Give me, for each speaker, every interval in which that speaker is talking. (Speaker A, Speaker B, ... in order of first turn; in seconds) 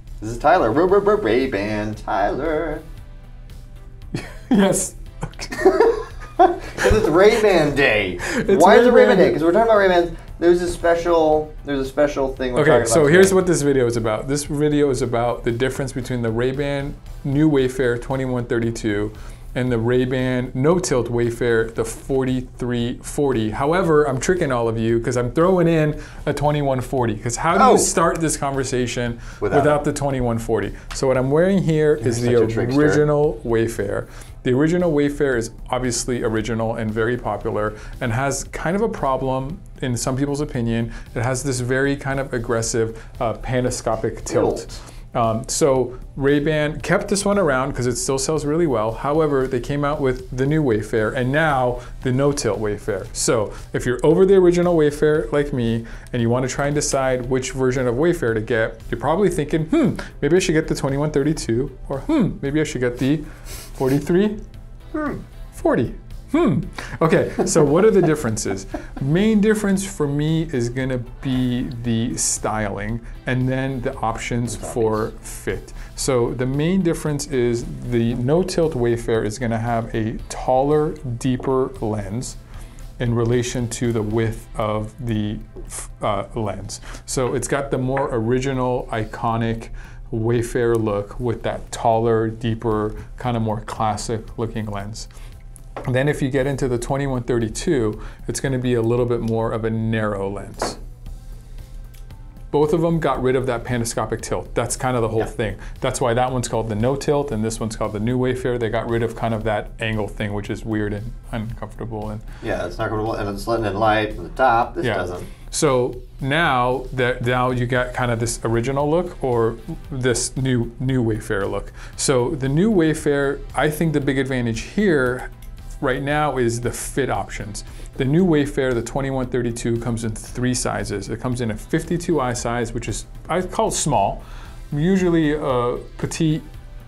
Speaker A: 0.2-2.8, 6.4-13.3, 27.5-27.9, 29.4-29.8, 32.0-33.0, 44.3-44.7, 64.9-65.2, 74.5-75.1, 112.4-115.3
Speaker B: 4.1-5.8, 8.2-9.4, 12.5-64.4, 65.5-82.4, 83.0-95.1, 95.8-100.8, 102.5-112.2, 114.8-125.3, 125.8-136.4